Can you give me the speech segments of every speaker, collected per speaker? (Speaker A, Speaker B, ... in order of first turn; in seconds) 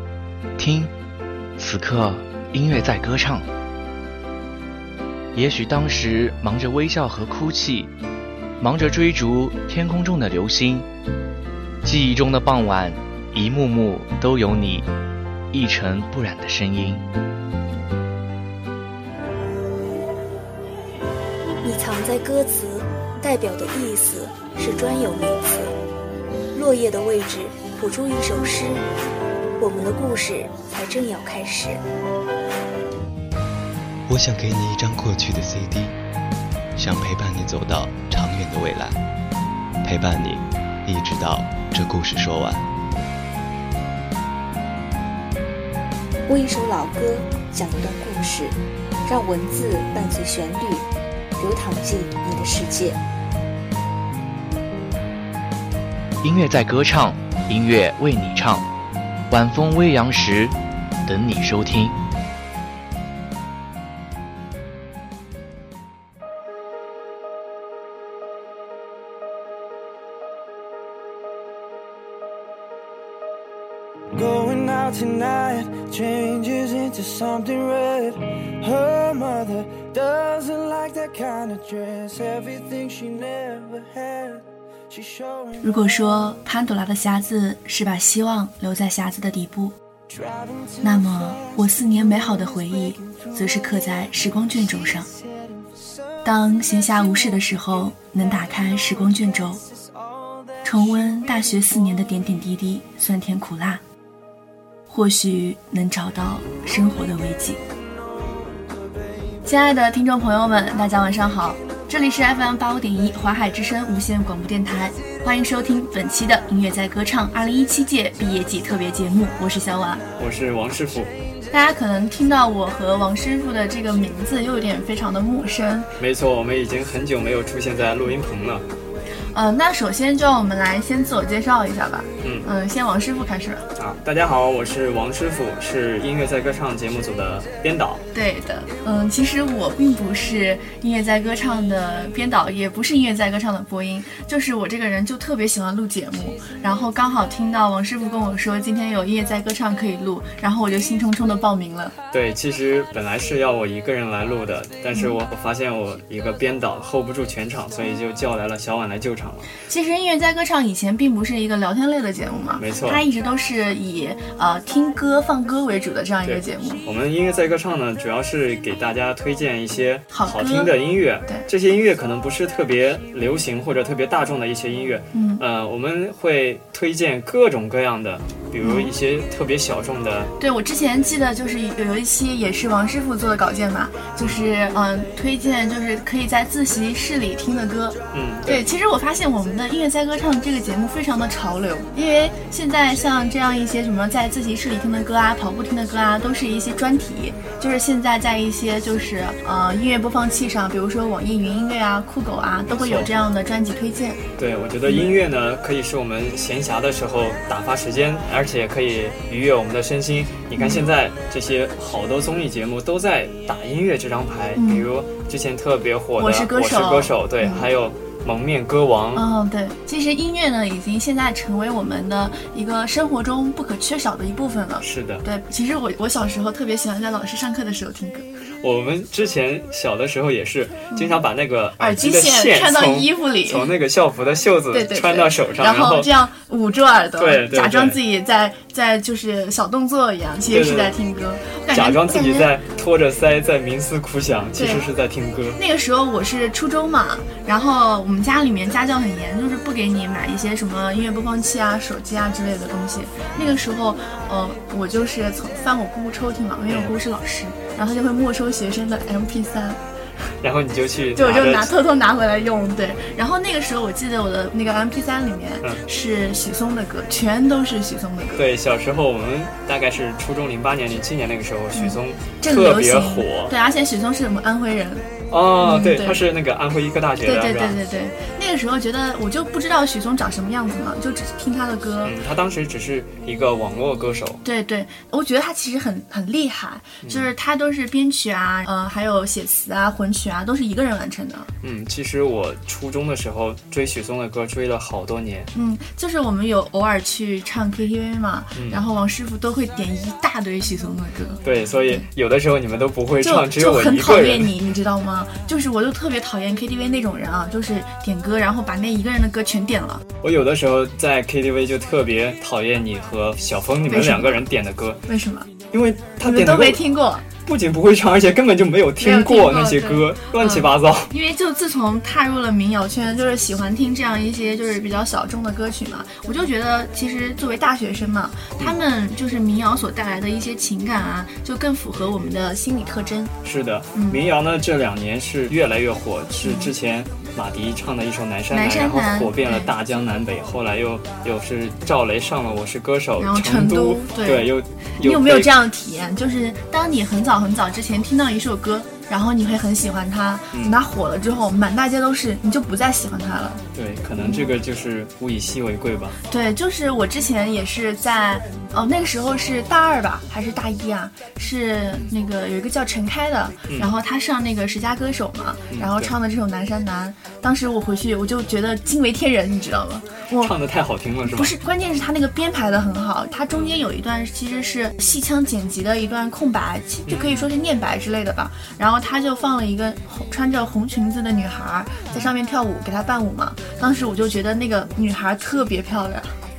Speaker A: 0.6-0.9, 1.6-3.5, 5.3-7.9, 8.6-10.9, 11.8-14.9, 15.5-17.1, 56.2-58.7, 59.3-62.0
Speaker B: 21.6-25.7, 26.6-28.8, 29.6-31.8, 46.3-53.0
Speaker C: 34.1-36.0, 36.8-39.0, 39.8-42.7
Speaker D: 74.1-85.7, 90.1-91.5, 95.2-95.7, 100.0-100.4
Speaker E: 85.6-89.8, 90.8-95.1, 96.2-99.6, 100.6-103.8, 104.9-107.6, 109.5-120.0, 121.5-125.9, 129.3-133.7, 138.1-151.9, 159.7-166.8, 170.1-170.7, 175.1-175.4, 178.6-178.9, 180.4-204.2, 210.6-210.9, 214.6-214.9, 216.2-217.7, 219.2-228.2, 230.9-231.2, 231.8-233.7, 234.7-242.5, 244.6-244.8, 245.6-259.8, 261.2-268.4, 271.7-275.1, 275.6-276.2, 277.2-282.2, 284.4-291.5, 295.5-302.1, 303.2-310.0, 313.9-314.4, 315.1-315.5, 316.2-317.2, 319.0-333.3, 333.9-334.2, 336.4-336.7, 338.5-339.7, 343.2-353.6, 354.2-354.5, 356.3-370.5, 371.2-386.4
Speaker F: 120.2-121.1, 126.0-128.7, 132.2-132.5, 133.8-138.0, 152.1-159.5, 162.6-163.0, 166.3-180.3, 184.2-184.4, 188.1-188.6, 202.7-203.1, 204.4-219.2, 224.8-225.3, 228.6-236.1, 237.2-238.0, 240.5-240.9, 241.7-245.6, 260.4-261.7, 268.4-273.5, 275.3-277.8, 282.0-284.4, 287.0-287.3, 291.6-295.5, 298.5-298.8, 301.4-304.5, 310.2-315.0, 315.7-316.8, 317.4-321.1, 333.4-345.5, 353.7-356.2, 365.7-366.1, 370.4-371.5, 377.1-377.5